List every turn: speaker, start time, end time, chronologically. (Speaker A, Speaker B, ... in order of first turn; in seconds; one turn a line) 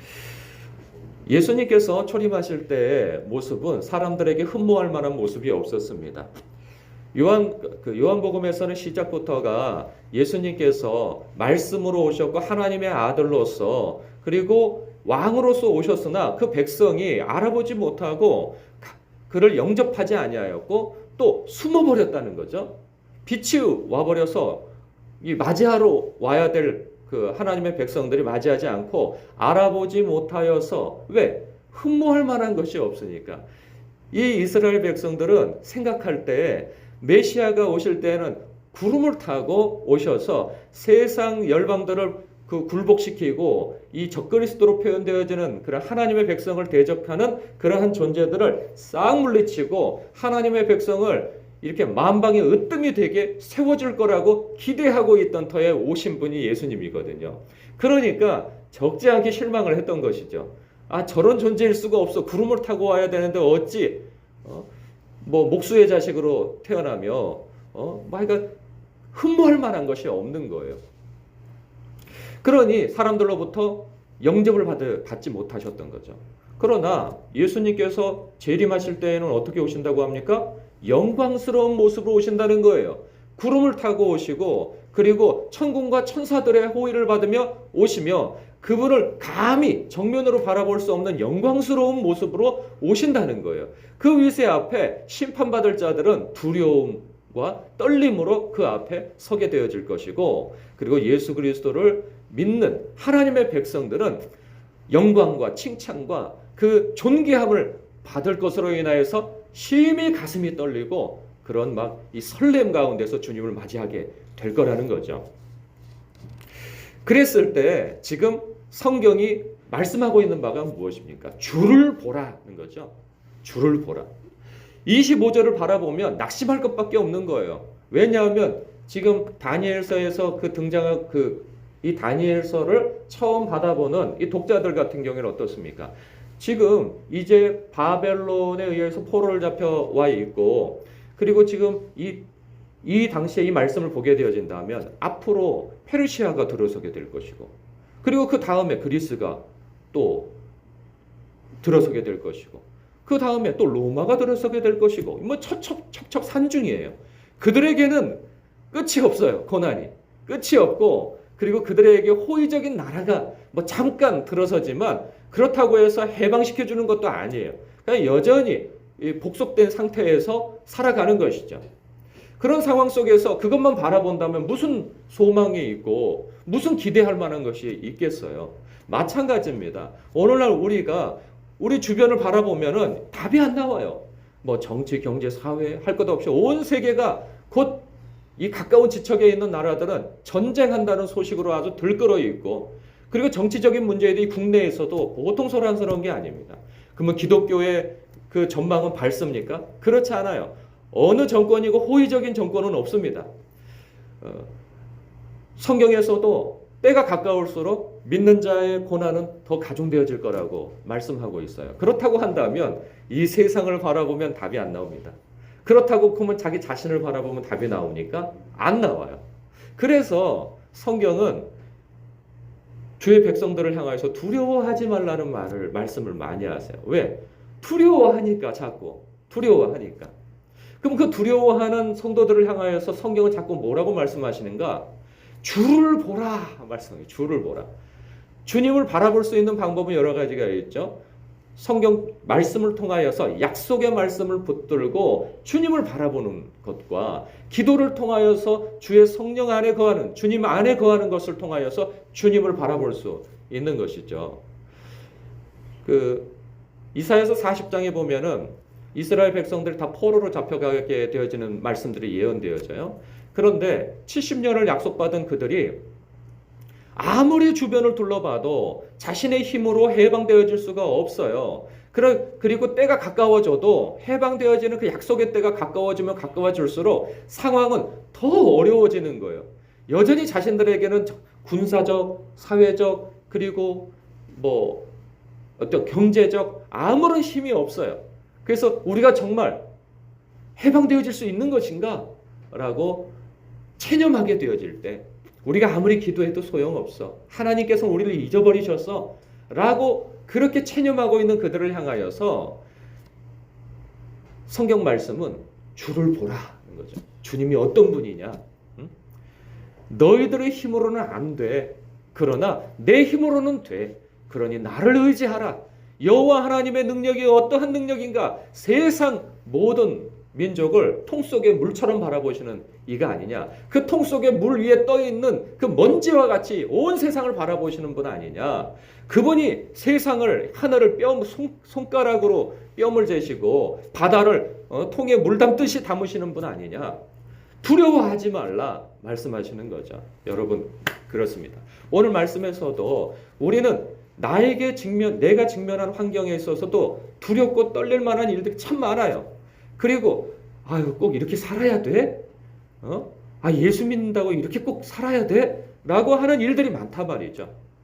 Speaker A: 1.3-6.3
Speaker A: 7.1-22.7
Speaker A: 23.3-24.6
Speaker A: 25.2-33.5
Speaker A: 34.1-64.7
Speaker A: 65.2-68.5
Speaker A: 69.1-70.8
Speaker A: 72.4-104.3
Speaker A: 104.9-115.3
Speaker A: 117.0-124.1
Speaker A: 124.9-142.2
Speaker A: 142.8-150.3
Speaker A: 151.6-171.7
Speaker A: 172.4-187.8
Speaker A: 188.4-203.3
Speaker A: 204.2-204.5
Speaker A: 205.6-219.2
Speaker A: 219.8-221.5
Speaker A: 223.0-230.1
Speaker A: 230.8-234.9
Speaker A: 235.4-237.7
Speaker A: 238.4-241.0
Speaker A: 241.6-254.4
Speaker A: 255.8-256.3
Speaker A: 256.9-265.8
Speaker A: 266.9-284.9
Speaker A: 285.6-289.6
Speaker A: 290.6-293.1
Speaker A: 293.8-302.6
Speaker A: 304.5-308.9
Speaker A: 309.9-337.0
Speaker A: 337.6-352.2
Speaker A: 352.8-357.5